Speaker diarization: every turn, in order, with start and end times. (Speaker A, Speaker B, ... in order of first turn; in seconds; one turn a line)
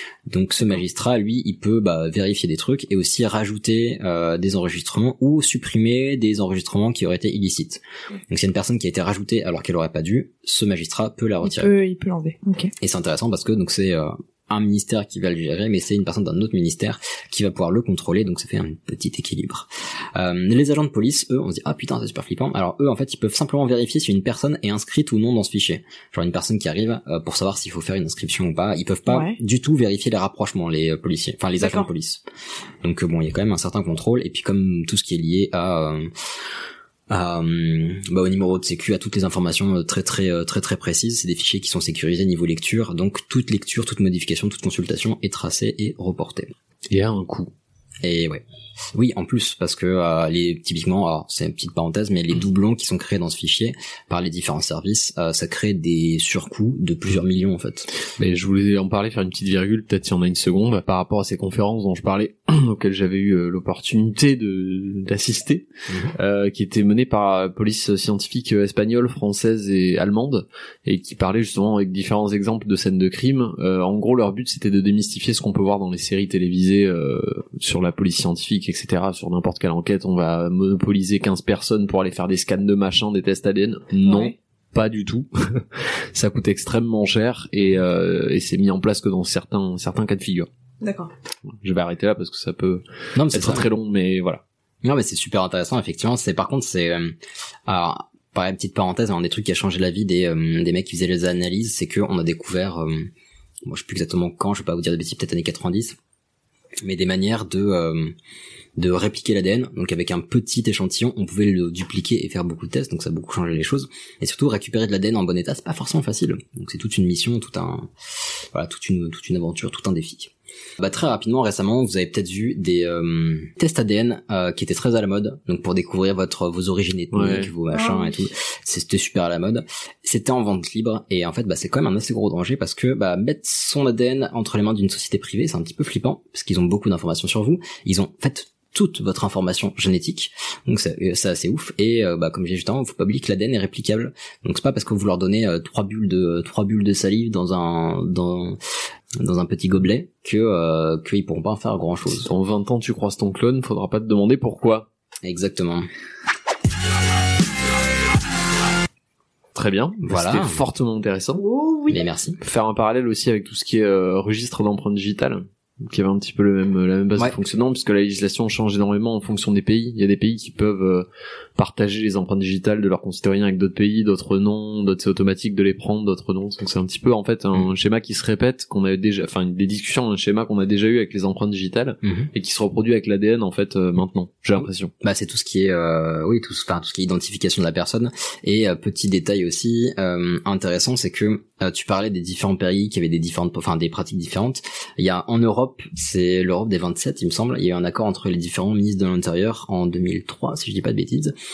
Speaker A: 0.3-11.7
Speaker B: 11.4-12.7
Speaker A: 12.8-32.2
Speaker B: 29.1-29.4
Speaker B: 31.6-31.9
Speaker A: 32.8-36.1
Speaker A: 37.1-46.5
Speaker C: 46.9-47.5
Speaker A: 48.0-48.4
Speaker A: 48.9-57.9
Speaker C: 58.2-90.5
Speaker A: 65.9-66.1
Speaker B: 84.0-84.3
Speaker B: 90.8-91.1
Speaker C: 91.6-94.4
Speaker A: 93.1-93.7
Speaker A: 94.8-97.2
Speaker A: 97.7-103.1
Speaker A: 103.6-106.0
Speaker A: 106.8-108.1
Speaker A: 108.8-117.9
Speaker A: 118.5-148.6
Speaker C: 127.1-127.5
Speaker B: 127.7-128.3
Speaker A: 149.2-152.3
Speaker C: 152.2-154.9
Speaker A: 155.2-155.9
Speaker C: 159.5-161.4
Speaker A: 160.0-160.6
Speaker B: 161.4-162.0
Speaker A: 161.9-162.4
Speaker C: 162.4-171.1
Speaker C: 171.6-184.9
Speaker A: 182.0-182.3
Speaker A: 185.0-201.3